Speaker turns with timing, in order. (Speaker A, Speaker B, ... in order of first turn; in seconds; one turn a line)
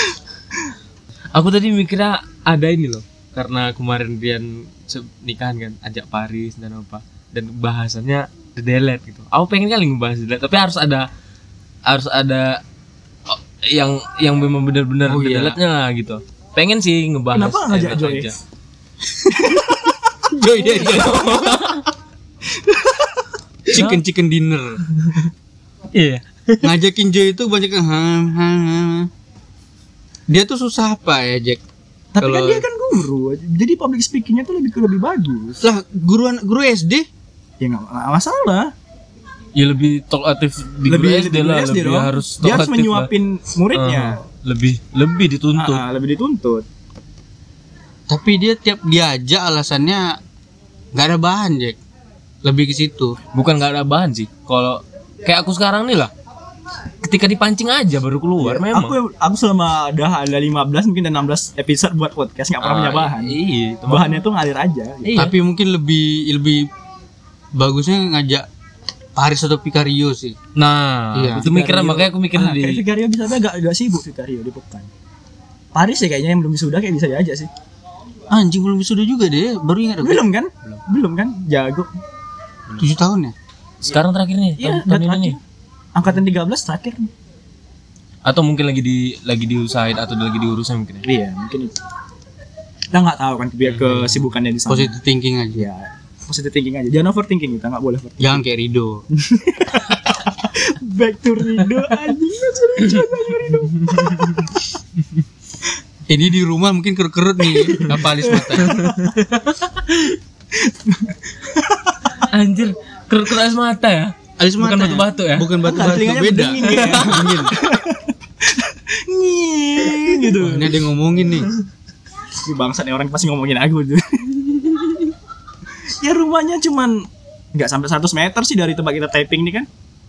Speaker A: 1.3-11.1
Speaker A: 11.8-12.6
Speaker A: 13.3-18.4
Speaker B: 15.1-15.6
Speaker C: 17.3-18.3
Speaker C: 19.2-20.0
Speaker B: 20.3-21.7
Speaker A: 20.4-21.9
Speaker C: 22.5-23.3
Speaker B: 23.7-24.8
Speaker A: 23.7-24.0
Speaker A: 24.9-25.3
Speaker A: 25.9-26.7
Speaker B: 26.6-29.1
Speaker B: 30.3-31.6
Speaker C: 32.1-35.6
Speaker B: 32.2-32.6
Speaker B: 35.6-37.1
Speaker C: 37.6-38.7
Speaker A: 39.5-43.1
Speaker C: 40.8-44.2
Speaker A: 43.7-45.8
Speaker C: 45.5-46.6
Speaker B: 48.1-50.2
Speaker B: 50.9-51.8
Speaker B: 52.4-53.2
Speaker A: 53.3-56.1
Speaker A: 57.0-59.0
Speaker C: 58.4-63.4
Speaker A: 62.6-64.2
Speaker C: 63.9-65.3
Speaker A: 65.0-65.3
Speaker B: 65.1-66.7
Speaker B: 67.5-68.5
Speaker B: 69.2-70.4
Speaker A: 70.5-72.8
Speaker B: 71.1-71.5
Speaker C: 71.4-74.9
Speaker C: 75.7-77.5
Speaker B: 78.3-80.2
Speaker C: 80.0-81.9
Speaker B: 82.8-83.3
Speaker A: 83.9-85.4
Speaker C: 84.6-85.4
Speaker C: 85.9-87.1
Speaker A: 88.2-91.0
Speaker C: 91.0-91.7
Speaker C: 92.9-94.9
Speaker B: 94.7-95.7
Speaker C: 95.5-98.4
Speaker B: 98.2-99.0
Speaker C: 99.1-104.4
Speaker A: 103.9-104.4
Speaker B: 106.1-108.8
Speaker C: 108.2-109.1
Speaker A: 108.5-110.2
Speaker C: 110.6-112.0
Speaker A: 112.3-115.5
Speaker B: 114.4-117.5
Speaker C: 115.6-120.8
Speaker A: 116.7-117.2
Speaker B: 120.4-121.5
Speaker C: 122.4-125.0
Speaker C: 126.0-129.7